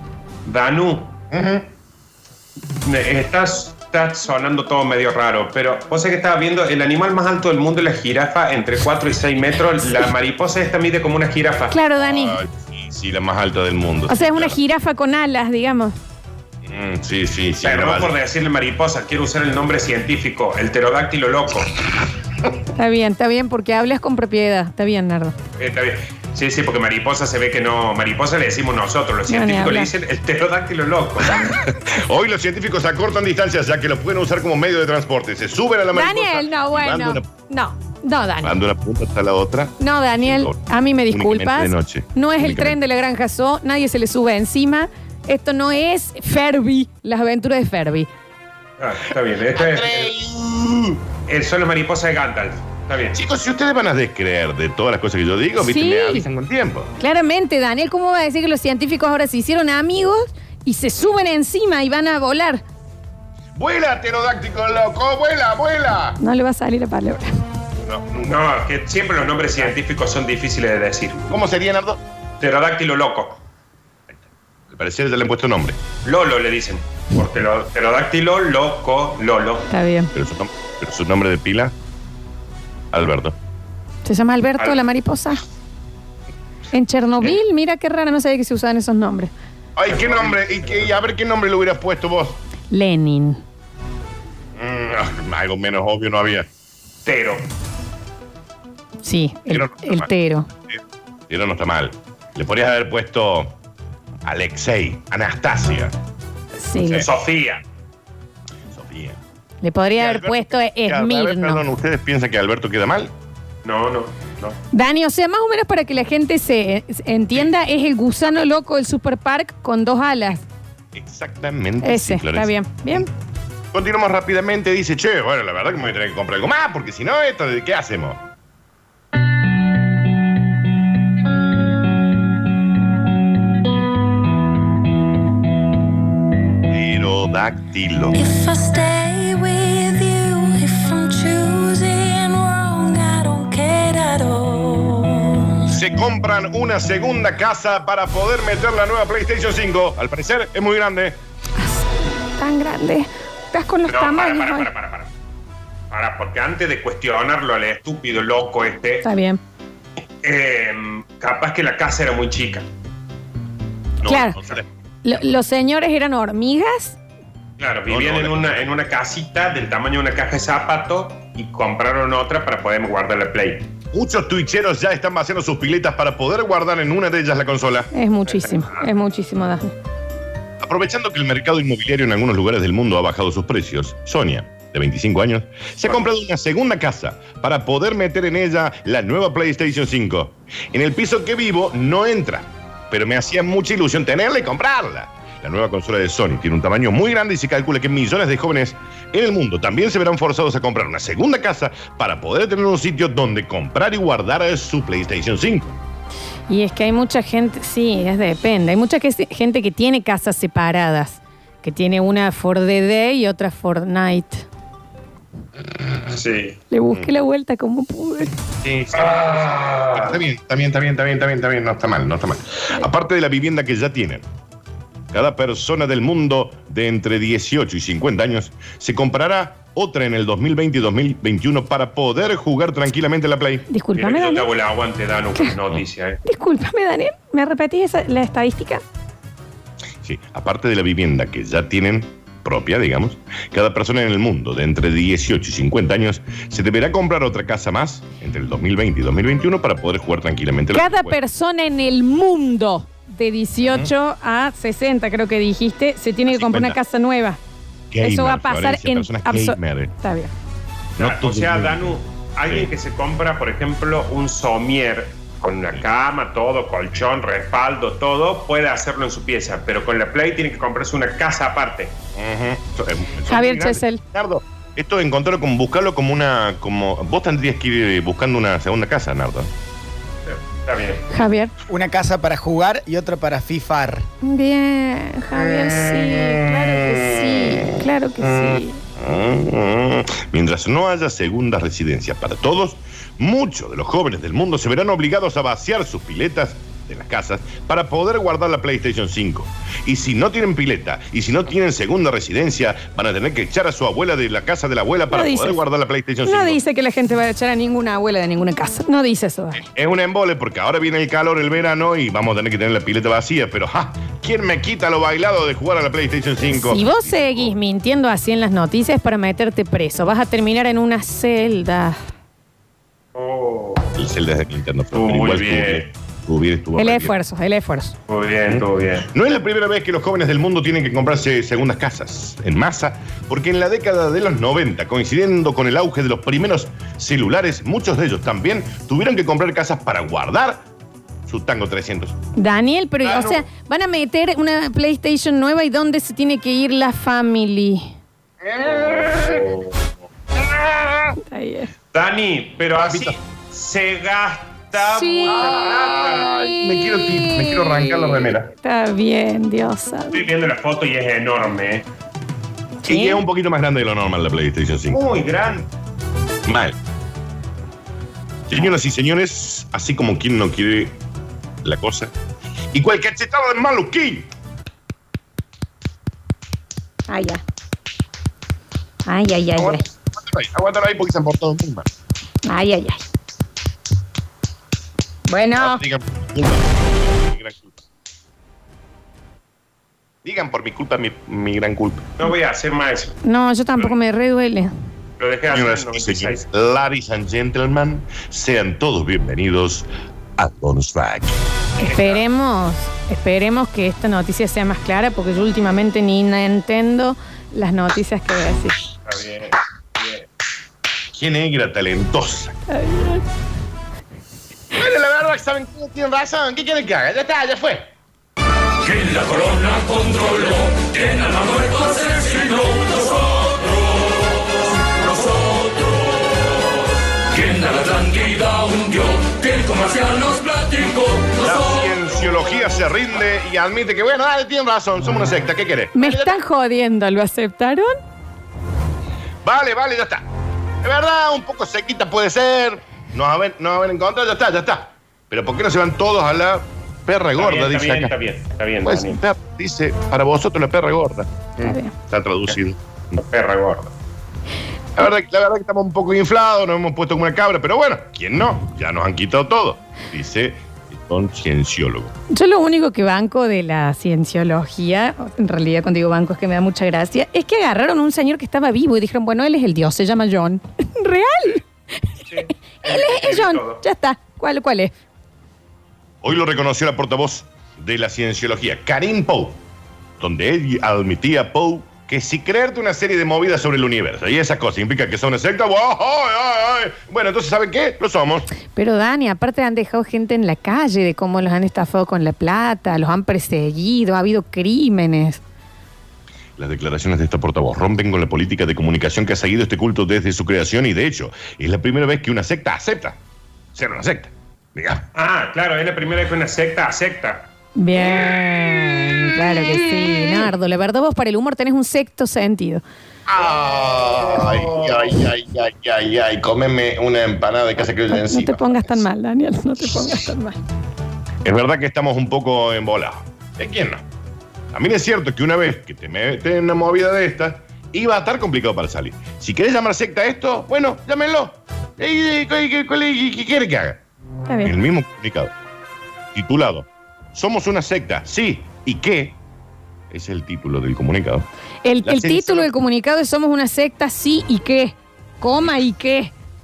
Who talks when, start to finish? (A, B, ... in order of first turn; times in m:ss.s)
0:00.4-0:01.1 A
0:01.3-0:01.6 B
0:02.8-0:11.7 A
0:11.7-0:12.4 C
0:12.0-0:14.5 B
0:14.1-0:16.0 C
0:16.6-0:18.2 B
0:17.6-0:21.8 A
0:22.7-0:25.3 C
0:25.6-0:31.5 A
0:29.3-0:29.9 C
0:31.4-0:37.2 B
0:35.9-0:38.6 C
0:38.4-0:40.6 B
0:39.8-0:48.1 C
0:41.1-0:42.8 B
0:48.8-0:50.1 A
0:49.6-0:51.0 B
0:51.3-0:53.2 A
0:53.1-0:56.9 B
0:55.6-0:56.3 C
0:57.0-1:02.6 C
1:03.5-1:06.2 B
1:06.2-1:07.3 C
1:07.8-1:08.4 B
1:08.2-1:11.2 A
1:09.2-1:09.7 B
1:11.3-1:12.0 B
1:12.4-1:13.4 A
1:14.1-1:15.8 B
1:16.0-1:19.7 A
1:19.7-1:20.1 C
1:20.1-1:21.7 B
1:22.9-1:23.3 B
1:24.0-1:25.4 C
1:26.7-1:29.3 C
1:29.8-1:32.4 B
1:29.9-1:30.9 A
1:32.7-1:33.4 C
1:34.6-1:36.5 B
1:37.0-1:37.5 A
1:39.0-1:40.5 C
1:39.5-1:40.1 B
1:40.7-1:43.6 B
1:44.2-1:45.9 B
1:46.6-1:47.1 C
1:46.8-1:47.1 B
1:47.0-1:47.6 A
1:48.7-1:49.2 B
1:49.6-1:51.6 C
1:50.0-1:53.1 B
1:53.6-1:54.5 A
1:54.7-2:00.4 C
2:00.9-2:03.1 B
2:01.8-2:03.1 C
2:03.7-2:08.2 B
2:16.7-2:18.3 B
2:18.1-2:25.6 D
2:25.7-2:31.2 B
2:31.6-2:34.7 C
2:33.9-2:35.1 A
2:35.9-2:39.0 A
2:39.0-2:39.4 C
2:40.2-2:42.6 A
2:44.0-2:45.2 B
2:44.0-2:44.4 C
2:45.0-2:47.0 C
2:47.6-2:53.7 A
2:47.9-2:48.9 B
2:53.9-2:57.9 B
2:57.9-2:59.7 C
2:58.3-2:58.7 A
3:00.6-3:25.7 B
3:26.5-3:34.4 C
3:36.1-3:36.6 A
3:36.7-3:38.3 C
3:38.6-3:44.2 B
3:39.0-3:40.0 A
3:45.1-3:53.6 B
3:53.7-3:54.5 C
3:54.0-3:56.2 A
3:56.2-3:58.8 C
4:00.0-4:11.2 B
4:10.7-4:17.4 C
4:13.6-4:13.9 B
4:16.3-4:16.8 B
4:17.9-4:19.9 B
4:18.0-4:20.3 C
4:21.0-4:31.9 A
4:21.0-4:22.7 B
4:32.1-4:39.5 B
4:33.3-4:34.0 C
4:40.2-4:41.0 A
4:41.1-4:41.5 C
4:41.7-4:44.1 E
4:44.2-4:48.8 C
4:45.4-5:06.6 B
5:05.1-5:05.6 C
5:06.2-5:09.6 C
5:09.5-5:17.6 B
5:16.5-5:22.0 C
5:23.1-5:23.9 A
5:24.0-5:27.1 B
5:24.9-5:25.9 A
5:26.8-5:27.9 C
5:28.1-5:29.1 A
5:28.4-5:40.6 B
5:41.2-5:42.2 B
5:42.4-5:47.9 C
5:43.0-5:43.4 B
5:48.4-5:49.4 B
5:48.6-5:49.8 A
5:50.4-5:51.1 B
5:51.2-5:51.7 C
5:51.9-5:56.3 A
5:52.8-5:53.1 B
5:54.8-5:55.5 C
5:55.3-5:58.5 B
5:56.3-6:00.3 C
6:00.1-6:01.8 A
6:02.8-6:03.2 C
6:02.8-6:05.0 B
6:04.9-6:05.7 A
6:06.5-6:06.8 B
6:08.5-6:11.0 B
6:11.6-6:12.1 B
6:12.7-6:14.3 B
6:17.1-6:17.4 C
6:19.0-6:19.8 C
6:19.5-6:21.9 B
6:22.4-6:23.0 C
6:25.3-6:25.8 C
6:25.5-6:27.8 B
6:30.2-6:32.1 B
6:32.2-6:33.2 A
6:33.2-6:34.7 C
6:35.2-6:36.4 A
6:35.5-6:41.4 B
6:41.8-6:42.2 A
6:41.8-6:48.8 C
6:49.0-6:50.3 A
6:51.1-6:52.6 B
6:52.7-6:53.2 C
6:54.7-6:57.9 B
7:01.3-7:02.3 F
7:07.6-7:10.9 F
7:11.3-7:16.4 B
7:15.9-7:17.9 C
7:19.4-7:20.2 B
7:20.8-7:28.1 B
7:27.4-7:29.2 A
7:28.8-7:33.2 B
7:31.6-7:31.9 C
7:33.1-7:33.9 A
7:35.0-7:42.1 B
7:42.3-7:51.6 C
7:52.2-7:53.8 A
7:52.8-7:54.9 C
7:56.2-7:59.6 B
8:00.2-8:08.5 B
8:08.7-8:15.4 C
8:16.6-8:23.2 B
8:23.7-8:25.0 B
8:25.1-8:27.5 A
8:27.8-8:32.8 C
8:33.3-8:39.1 B
8:34.4-8:34.9 A
8:38.1-8:40.6 C
8:41.4-8:44.0 B
8:44.7-8:54.0 B
8:54.4-8:54.7 C
8:54.6-8:55.5 B
8:56.3-8:59.4 B
9:00.1-9:01.5 B
9:01.8-9:06.3 C
9:02.0-9:02.7 B